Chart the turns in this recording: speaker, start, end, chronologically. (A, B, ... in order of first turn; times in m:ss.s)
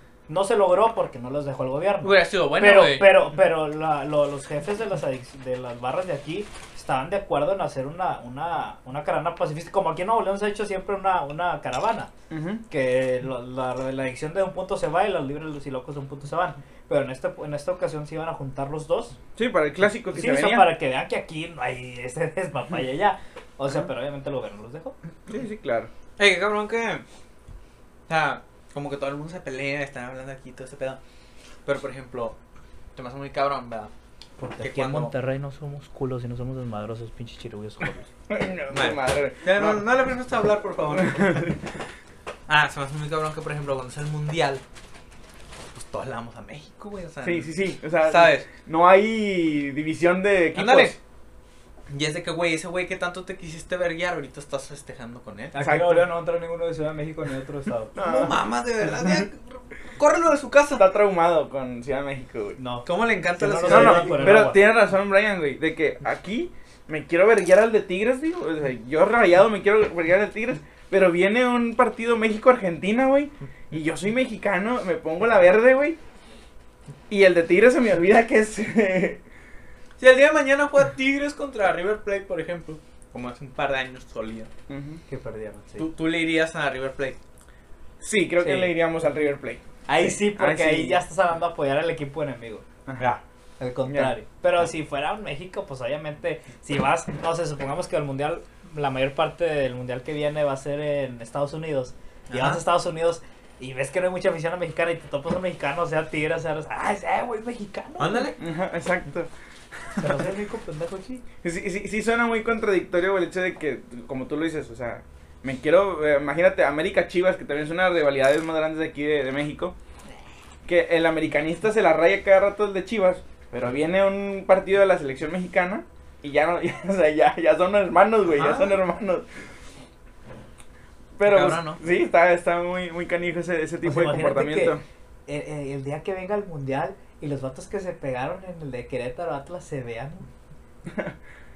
0:00.3-0:12.1 A
0:02.0-0:03.3 B
0:12.3-0:12.6 C
0:12.7-0:19.2 A
0:19.4-0:20.7 C
0:20.1-0:25.0 A
0:25.3-0:25.9 C
0:26.2-0:27.0 B
0:28.1-0:31.0 B
0:31.6-0:32.4 B
0:33.0-0:33.9 B
0:34.4-0:38.1 A
0:34.6-0:35.1 B
0:38.3-0:39.8 C
0:38.7-0:41.5 B
0:41.0-0:41.6 C
0:42.5-0:44.6 B
0:45.7-0:48.5 B
0:47.2-0:51.0 C
0:50.6-0:51.0 B
0:51.9-0:55.6 B
0:55.5-0:57.9 A
0:55.6-0:56.1 C
0:58.0-0:58.4 C
0:58.0-1:00.9 B
1:00.8-1:02.6 C
1:02.6-1:04.6 A
1:02.8-1:04.5 B
1:03.7-1:16.0 C
1:17.1-1:19.2 C
1:20.0-1:24.5 B
1:24.7-1:25.0 C
1:25.1-1:25.9 A
1:25.8-1:27.2 B
1:28.0-1:31.0 C
1:28.4-1:28.8 A
1:29.9-1:32.6 A
1:32.9-1:33.2 C
1:33.6-1:48.3 A
1:33.9-1:34.1 C
1:42.3-1:42.6 B
1:48.0-1:48.4 B
1:48.4-1:49.3 C
1:49.9-1:50.3 C
1:50.0-1:51.2 A
1:51.4-1:59.8 C
2:00.7-2:09.3 C
2:08.3-2:08.8 B
2:11.2-2:14.8 C
2:11.2-2:11.8 B
2:13.8-2:20.3 A